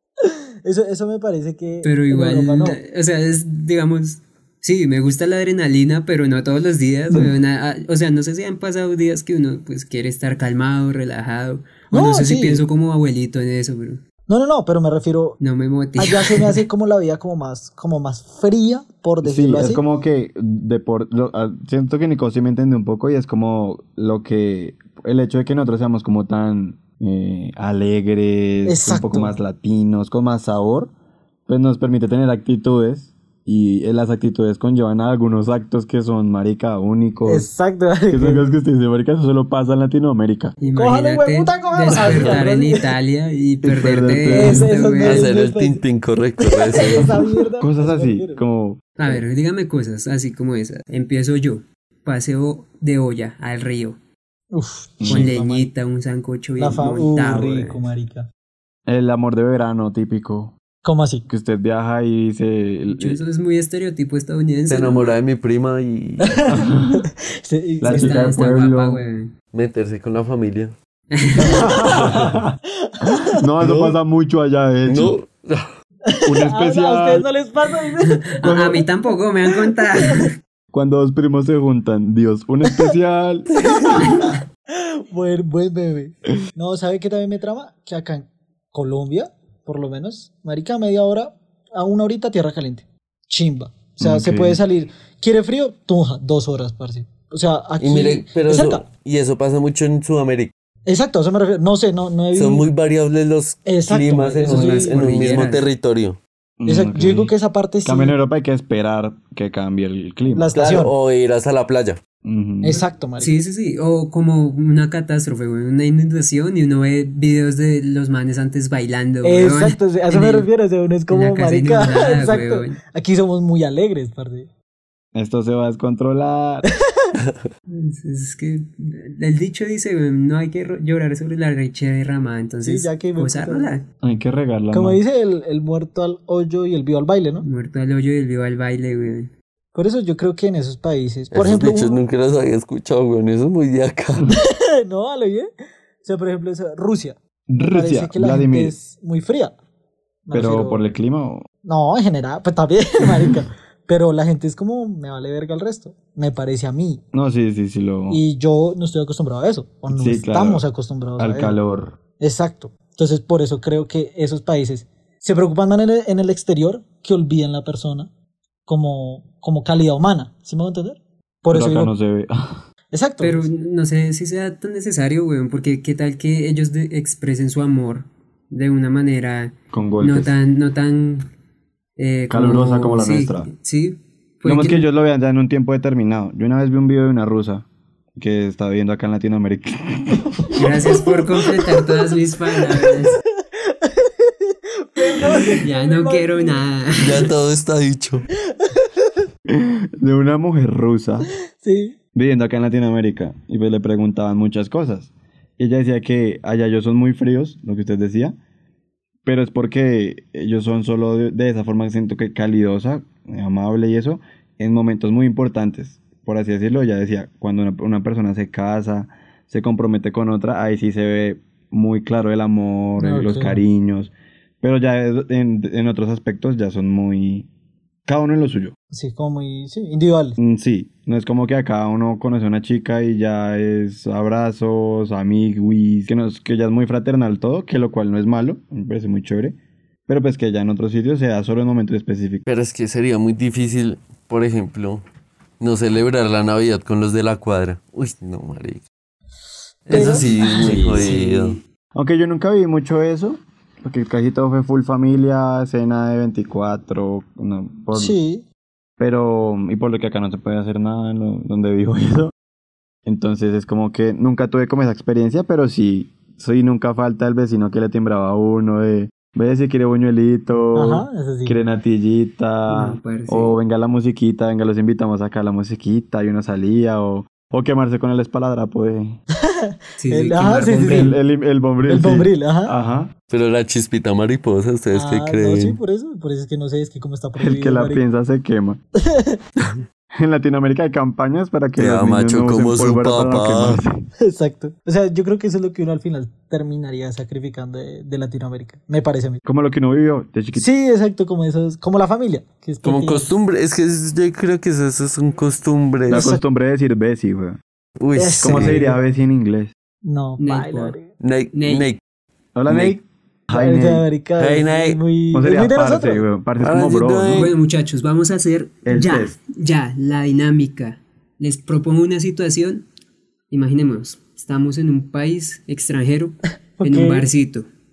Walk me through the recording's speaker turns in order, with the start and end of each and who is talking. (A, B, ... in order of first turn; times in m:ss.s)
0:00.2-0:02.8 A
0:01.8-0:14.0 B
0:11.9-0:12.6 A
0:14.3-0:15.4 A
0:15.4-0:16.6 B
0:16.0-0:19.8 A
0:19.2-0:30.9 C
0:28.6-0:29.3 A
0:31.5-0:37.5 C
0:37.2-0:38.4 A
0:38.1-0:40.6 C
0:40.6-0:45.3 B
0:40.7-0:42.9 A
0:42.1-0:42.4 D
0:43.6-0:44.7 C
0:44.3-0:45.8 A
0:45.0-0:47.1 D
0:46.4-0:48.4 A
0:47.6-0:49.2 C
0:49.0-0:54.0 B
0:54.5-0:55.7 A
0:55.0-0:55.3 C
0:55.1-0:57.8 B
0:56.6-0:58.3 A
0:58.9-1:00.5 C
1:00.8-1:01.3 A
1:01.3-1:03.2 C
1:02.9-1:05.1 B
1:04.7-1:06.6 D
1:06.2-1:08.4 A
1:06.5-1:07.0 C
1:07.8-1:09.0 C
1:07.8-1:09.3 B
1:09.5-1:10.7 D
1:11.1-1:12.0 B
1:11.4-1:12.5 C
1:12.8-1:13.4 A
1:13.2-1:15.2 C
1:13.6-1:13.9 D
1:14.9-1:15.7 D
1:16.0-1:18.3 A
1:16.2-1:17.3 C
1:18.0-1:20.4 B
1:18.4-1:18.8 C
1:20.7-1:23.5 C
1:23.6-1:38.8 A
1:34.0-1:34.6 C
1:37.8-1:40.5 D
1:40.8-1:42.7 A
1:42.3-1:46.2 D
1:43.6-1:45.0 A
1:44.4-1:45.6 B
1:46.6-1:47.3 C
1:46.6-1:48.1 A
1:47.8-1:50.5 C
1:50.3-1:50.9 A
1:50.5-1:52.0 D
1:52.2-1:52.8 C
1:52.6-1:53.4 A
1:53.2-2:00.5 B
1:59.2-2:04.5 A
2:01.1-2:02.8 B
2:05.1-2:06.7 C
2:07.7-2:13.8 B
2:12.6-2:13.7 A
2:14.0-2:15.0 C
2:14.7-2:17.4 A
2:17.4-2:19.3 B
2:19.7-2:22.0 A
2:21.3-2:24.3 D
2:24.3-2:25.5 A
2:26.0-2:29.5 A
2:27.5-2:28.7 C
2:30.2-2:30.8 A
2:30.3-2:31.4 C
2:31.6-2:37.0 A
2:37.1-2:38.2 C
2:38.1-2:41.6 A
2:39.9-2:40.6 C
2:41.2-2:42.0 C
2:42.2-2:48.1 A
2:48.7-2:51.9 A
2:51.5-2:52.6 C
2:52.9-2:53.5 A
2:53.2-3:01.3 B
2:59.7-3:00.3 C
3:02.0-3:04.8 B
3:02.3-3:03.5 C
3:04.4-3:10.5 C
3:10.5-3:13.2 B
3:10.8-3:16.6 A
3:15.6-3:17.3 B
3:17.0-3:18.2 D
3:18.6-3:19.2 A
3:19.5-3:21.3 C
3:21.6-3:22.0 A
3:22.1-3:28.4 C
3:29.2-3:47.5 C
3:43.0-3:43.6 A
3:48.0-3:48.7 C
3:48.9-3:50.4 A
3:50.4-4:02.4 C
4:02.4-4:05.0 D
4:05.6-4:08.8 D
4:09.9-4:10.8 A
4:09.9-4:11.6 D
4:10.0-4:18.2 C
4:17.9-4:18.4 A
4:19.0-4:22.3 C
4:23.0-4:39.2 C
4:30.7-4:31.6 A
4:32.7-4:33.5 B
4:39.4-4:41.2 A
4:40.0-4:41.1 B
4:40.5-4:43.1 C
4:41.8-4:42.8 A
4:43.3-4:45.8 D
4:44.9-4:48.0 A
4:47.4-4:48.8 C
4:49.0-4:49.4 A
4:50.1-4:54.1 C
4:51.8-4:53.8 D
4:54.2-4:59.4 A
4:59.4-5:00.7 C
5:00.5-5:03.3 A
5:02.8-5:06.3 D
5:06.1-5:06.4 A
5:06.1-5:07.6 C
5:08.0-5:08.8 D
5:08.1-5:09.0 A
5:08.4-5:09.7 C
5:10.0-5:11.1 A
5:10.4-5:11.0 B
5:11.2-5:12.0 D
5:11.5-5:11.9 B
5:12.6-5:14.0 C
5:12.7-5:12.9 D
5:13.5-5:16.2 A
5:14.4-5:15.0 D
5:15.3-5:17.5 C
5:16.6-5:17.5 D
5:17.3-5:22.8 B
5:18.8-5:19.3 C
5:23.5-5:27.7 B
5:26.8-5:27.3 A